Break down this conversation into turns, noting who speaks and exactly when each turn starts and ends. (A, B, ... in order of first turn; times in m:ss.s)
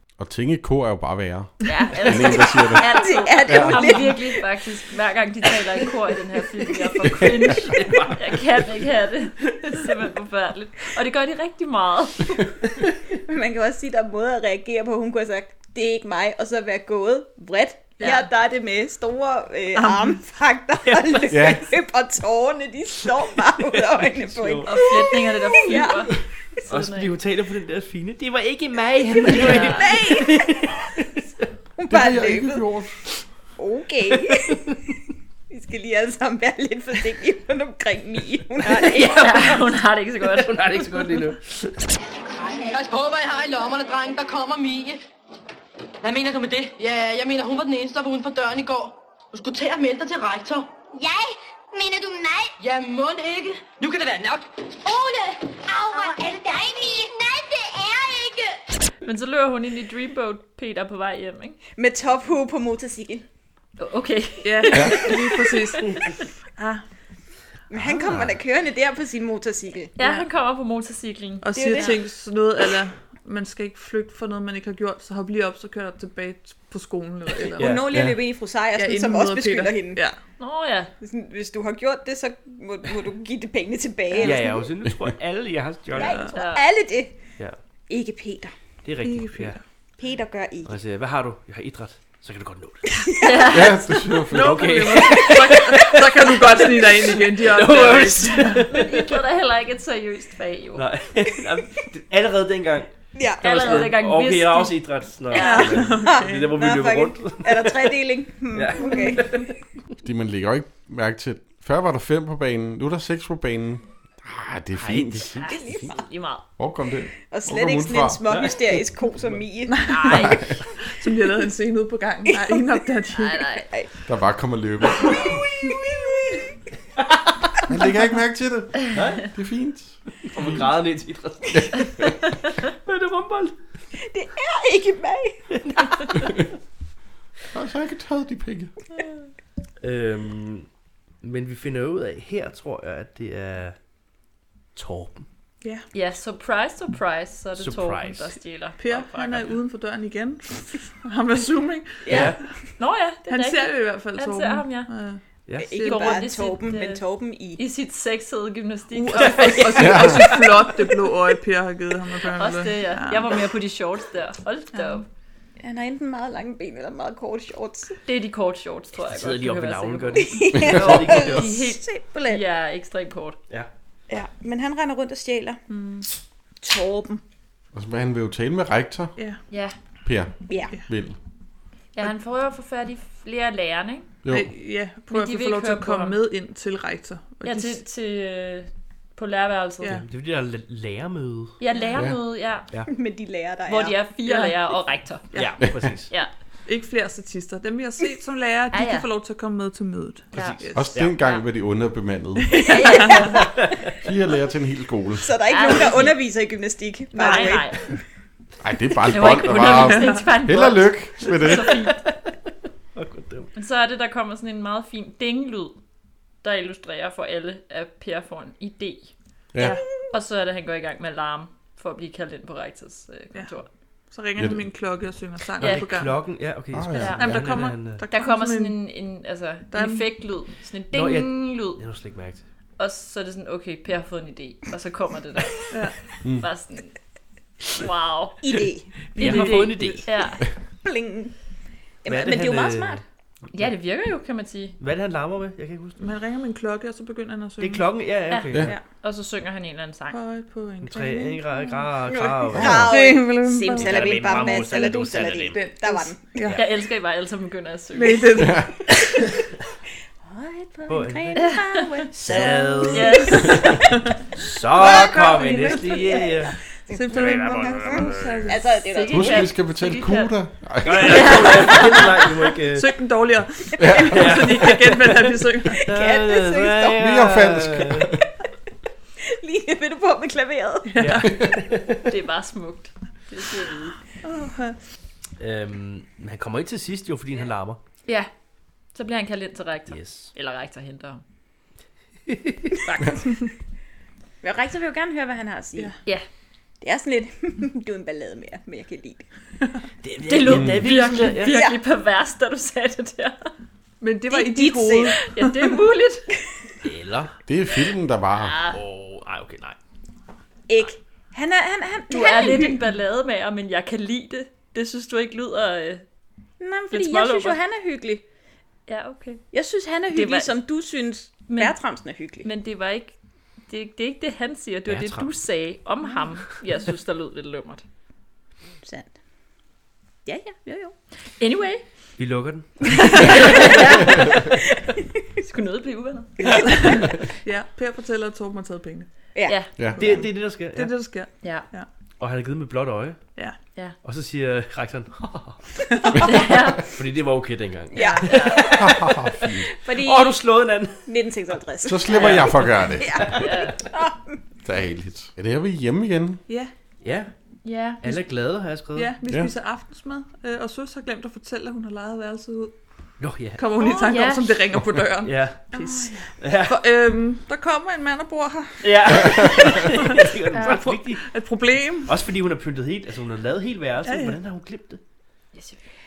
0:00.2-0:03.8 A
0:01.6-0:12.4 B
0:02.7-0:04.4 C
0:03.5-0:03.8 D
0:07.4-0:08.4 D
0:13.2-0:26.2 C
0:18.0-0:18.2 B
0:19.7-0:20.2 E
0:20.8-0:21.5 D
0:21.3-0:21.7 A
0:23.1-0:24.8 D
0:24.6-0:27.1 B
0:26.7-0:31.2 D
0:29.3-0:30.8 C
0:29.3-0:29.9 B
0:31.8-0:32.6 C
0:31.9-0:33.0 A
0:33.6-0:34.6 C
0:34.1-0:34.8 D
0:35.5-0:39.6 C
0:38.6-0:39.7 D
0:39.1-0:40.8 B
0:40.2-0:41.8 D
0:42.3-0:45.0 F
0:46.0-0:50.7 F
0:50.9-0:52.5 G
0:52.6-0:54.5 F
0:54.8-0:58.4 G
0:59.0-1:01.6 B
1:01.8-1:03.2 C
1:03.8-1:06.1 B
1:04.4-1:06.0 E
1:06.6-1:06.8 E
1:07.7-1:09.9 C
1:08.0-1:08.3 A
1:10.0-1:12.0 B
1:10.0-1:10.2 E
1:11.4-1:17.8 E
1:11.5-1:12.0 C
1:17.6-1:18.1 D
1:17.6-1:20.0 C
1:18.7-1:20.2 E
1:20.4-1:20.9 B
1:21.0-1:24.7 C
1:24.2-1:26.2 D
1:25.9-1:27.2 C
1:26.0-1:26.3 E
1:26.3-1:26.6 B
1:27.9-1:28.5 C
1:28.8-1:29.6 D
1:29.0-1:29.6 E
1:30.0-1:30.7 C
1:30.6-1:32.9 D
1:33.0-1:33.7 C
1:33.2-1:33.9 B
1:33.5-1:34.8 A
1:34.3-1:38.7 E
1:34.3-1:39.2 D
1:35.1-1:35.4 C
1:38.7-1:40.9 B
1:40.8-1:42.9 D
1:43.1-1:43.9 C
1:43.4-1:45.8 B
1:43.4-1:48.0 D
1:45.3-1:46.6 E
1:45.9-1:49.4 C
1:48.5-1:49.5 D
1:50.0-1:55.9 A
1:54.8-1:55.2 D
1:55.2-1:56.4 B
1:55.4-1:56.0 C
1:56.6-1:58.2 A
1:57.3-1:59.8 C
1:58.3-1:59.4 D
1:59.7-2:00.2 E
1:59.8-2:00.6 B
2:00.1-2:00.6 A
2:00.8-2:03.5 E
2:03.2-2:03.7 B
2:04.1-2:05.2 A
2:05.0-2:06.5 C
2:07.7-2:10.6 A
2:08.9-2:09.3 D
2:10.2-2:12.0 D
2:12.7-2:13.5 D
2:14.1-2:16.1 C
2:15.6-2:16.1 D
2:17.5-2:18.7 A
2:19.8-2:20.7 D
2:21.2-2:23.8 D
2:24.8-2:25.2 D
2:25.9-2:29.5 B
2:27.6-2:28.3 D
2:28.8-2:32.5 E
2:32.0-2:32.4 C
2:32.1-2:32.4 D
2:32.8-2:34.9 B
2:33.3-2:36.2 E
2:35.6-2:37.6 C
2:35.8-2:37.0 B
2:37.6-2:40.0 B
2:38.9-2:43.4 E
2:39.8-2:40.3 A
2:42.4-2:45.0 B
2:44.7-2:45.0 E
2:45.6-2:47.9 C
2:48.0-2:53.4 B
2:49.1-2:51.6 D
2:50.2-2:52.4 C
2:54.1-2:55.6 C
2:55.7-2:56.1 E
2:56.6-2:57.2 C
2:57.7-2:59.1 A
3:00.0-3:01.2 A
3:02.0-3:04.1 B
3:04.2-3:04.5 A
3:04.3-3:07.8 E
3:05.1-3:06.2 B
3:07.4-3:10.0 B
3:09.8-3:10.0 E
3:10.0-3:11.6 D
3:11.6-3:12.7 B
3:12.9-3:14.0 C
3:13.7-3:15.4 B
3:14.2-3:14.5 E
3:15.3-3:16.1 D
3:16.6-3:20.9 E
3:18.7-3:19.1 B
3:20.3-3:21.1 D
3:20.3-3:20.6 B
3:20.7-3:22.7 A
3:22.6-3:23.3 E
3:22.7-3:23.4 B
3:23.3-3:23.7 D
3:24.0-3:25.3 A
3:25.2-3:28.0 C
3:25.5-3:26.2 B
3:27.1-3:27.8 B
3:28.6-3:31.9 A
3:29.1-3:32.0 B
3:31.2-3:32.3 D
3:32.9-3:33.5 D
3:33.5-3:35.8 B
3:36.4-3:39.1 B
3:40.1-3:43.7 B
3:44.1-3:46.2 E
3:44.4-3:44.6 A
3:45.6-3:48.0 D
3:46.7-3:47.5 A
3:47.0-3:47.3 B
3:47.2-3:48.8 E
3:48.1-3:51.8 B
3:49.7-3:50.1 E
3:50.9-3:52.4 D
3:52.8-3:56.9 B
3:55.7-3:56.0 E
3:57.7-3:58.4 B
3:58.4-3:59.3 C
3:59.1-4:00.1 D
3:59.2-4:00.0 E
3:59.2-4:00.4 B
4:00.8-4:01.3 C
4:02.0-4:03.0 C
4:02.1-4:03.0 D
4:03.5-4:04.8 B
4:04.8-4:06.0 D
4:06.0-4:07.9 E
4:07.6-4:08.8 D
4:08.3-4:10.2 B
4:10.1-4:11.9 E
4:10.8-4:13.0 D
4:12.1-4:16.3 C
4:12.6-4:12.8 A
4:12.7-4:16.6 E
4:13.7-4:15.6 D
4:16.5-4:18.5 B
4:17.9-4:18.9 E
4:20.2-4:23.8 C
4:20.9-4:21.5 D
4:21.4-4:22.1 B
4:22.2-4:23.8 D
4:22.9-4:23.7 B
4:24.4-4:26.5 D
4:24.7-4:26.3 E
4:24.8-4:26.2 C
4:26.9-4:28.6 E
4:27.3-4:28.0 D
4:27.7-4:29.5 C
4:28.9-4:30.3 B
4:29.1-4:31.8 A
4:30.8-4:33.0 D
4:31.0-4:32.0 B
4:32.7-4:35.9 E
4:33.8-4:34.5 A
4:34.0-4:38.1 D
4:35.8-4:37.2 C
4:37.0-4:38.2 A
4:39.3-4:41.0 C
4:40.9-4:41.3 E
4:41.0-4:42.0 D
4:42.1-4:43.9 B
4:44.2-4:44.8 E
4:45.4-4:47.8 D
4:48.9-4:51.2 B
4:49.9-4:50.3 D
4:52.3-4:52.6 D
4:52.8-4:53.2 B
4:54.4-4:55.9 C
4:56.8-4:59.3 C
5:00.0-5:01.6 D
5:00.3-5:03.5 B
5:00.5-5:00.8 A
5:01.4-5:01.8 C
5:04.0-5:05.8 E
5:04.3-5:05.2 C
5:05.2-5:06.3 B
5:06.8-5:07.3 D
5:07.5-5:08.6 A
5:08.4-5:08.8 B
5:08.7-5:09.8 D
5:10.7-5:12.8 C
5:12.1-5:16.0 B
5:16.6-5:18.2 C
5:16.9-5:17.6 B
5:18.9-5:19.5 B
5:19.5-5:22.5 C
5:20.1-5:20.5 B
5:21.5-5:21.8 B
5:22.4-5:23.2 B
5:23.7-5:27.8 B
5:24.9-5:25.3 D
5:28.8-5:29.1 C
5:30.2-5:30.9 C
5:31.4-5:31.8 B
5:32.2-5:33.6 D
5:33.1-5:34.2 B
5:33.4-5:34.1 C
5:35.4-5:36.6 B
5:36.4-5:39.1 E
5:39.3-5:39.6 C
5:39.9-5:41.9 E
5:40.0-5:40.9 D
5:41.4-5:41.7 B
5:42.2-5:43.3 D
5:44.0-5:45.6 D
5:45.9-5:46.5 E
5:46.2-5:46.8 B
5:46.8-5:49.2 D
5:47.9-5:48.9 C
5:47.9-5:48.8 B
5:48.8-5:49.7 A
5:49.8-5:50.4 C
5:49.8-5:51.0 D
5:51.0-5:54.4 C
5:51.8-5:53.3 A
5:52.1-5:53.7 D
5:53.4-5:53.7 B
5:54.6-5:56.4 A
5:57.0-5:57.3 D
5:57.6-5:58.0 B
5:58.0-5:59.1 D
5:58.9-6:02.7 E
6:03.2-6:03.7 D
6:03.5-6:12.1 E
6:03.8-6:04.5 B
6:05.2-6:05.7 D
6:05.7-6:06.1 C
6:06.4-6:06.8 D
6:08.8-6:11.2 D
6:10.5-6:10.8 B
6:12.0-6:15.0 D
6:14.0-6:14.4 E